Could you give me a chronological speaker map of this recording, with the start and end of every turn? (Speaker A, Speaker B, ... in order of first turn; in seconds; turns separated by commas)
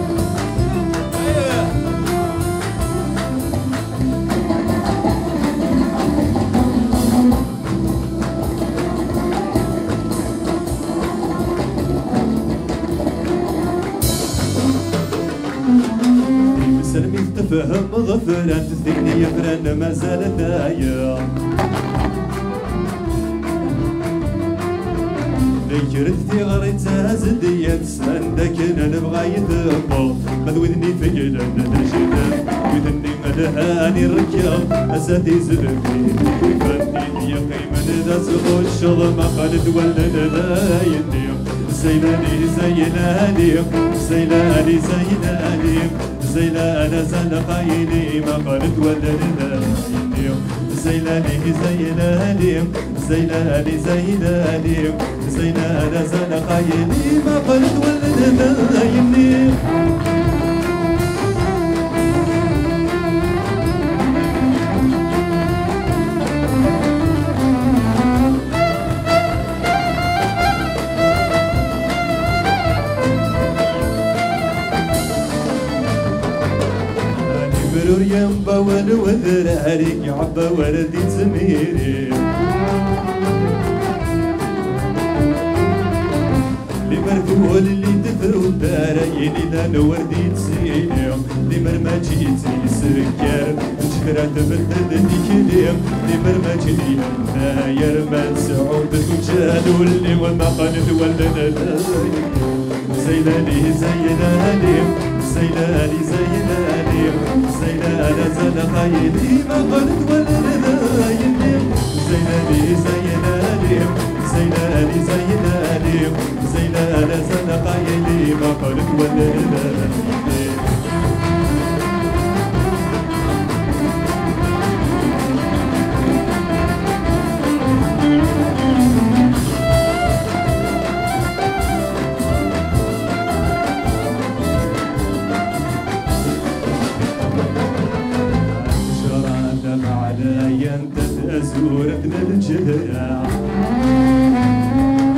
Speaker A: 1.4-1.7, Speaker A: 16.4-21.4, Speaker A: 25.5-59.6, Speaker A: 77.1-82.3, Speaker A: 86.8-120.7, Speaker A: 138.4-143.4